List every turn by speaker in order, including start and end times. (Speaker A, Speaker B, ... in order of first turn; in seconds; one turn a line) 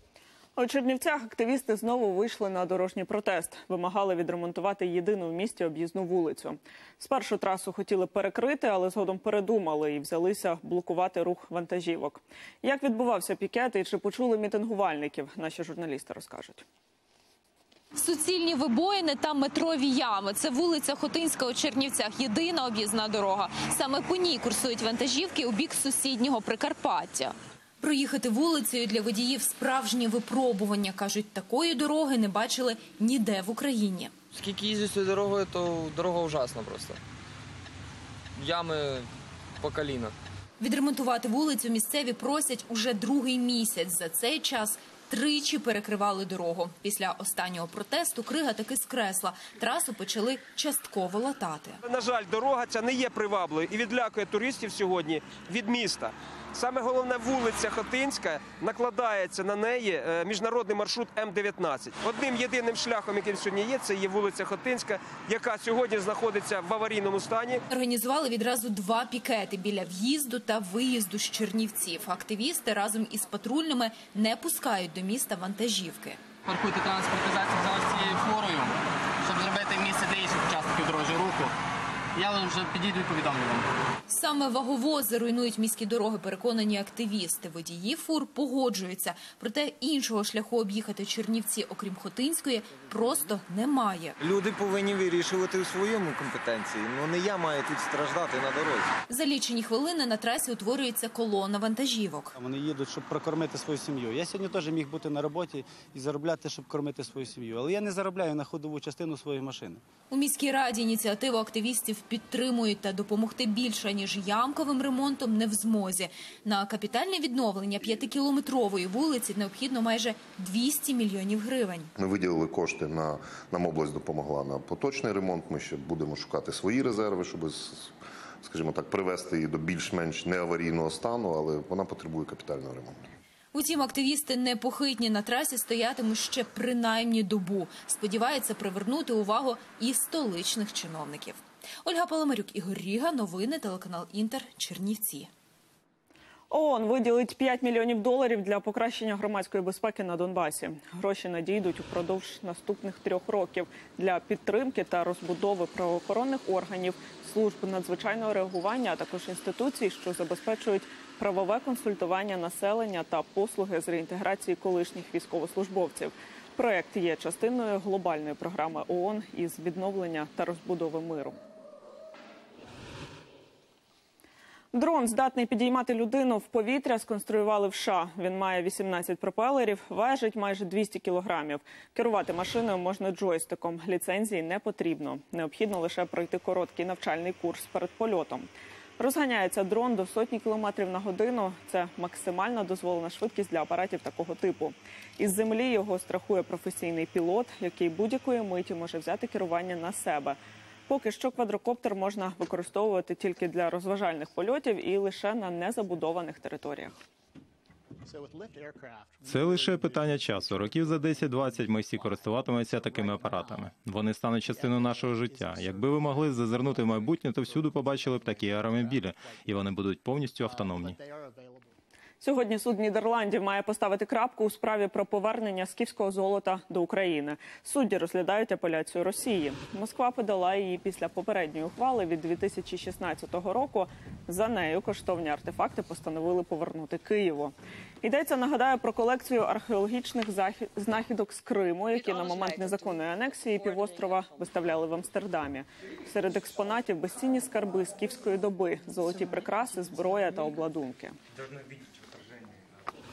Speaker A: 0.6-16.6
Speaker B: 18.0-34.1
Speaker C: 34.3-37.0
Speaker C: 38.4-39.1
Speaker C: 39.6-40.1
Speaker B: 40.6-51.8
Speaker D: 51.8-67.6
Speaker B: 67.7-76.2
Speaker E: 76.5-78.7
Speaker E: 79.2-81.5
Speaker E: 82.2-83.7
Speaker B: 84.1-94.2
Speaker F: 94.2-98.9
Speaker B: 99.1-102.3
Speaker G: 102.4-109.8
Speaker B: 110.1-121.9
Speaker H: 122.0-133.1
Speaker B: 133.5-145.3
Speaker A: 146.5-171.4
Speaker A: 174.7-207.0
Speaker I: 209.3-221.0
Speaker E: 215.3-215.9
Speaker A: 222.2-251.2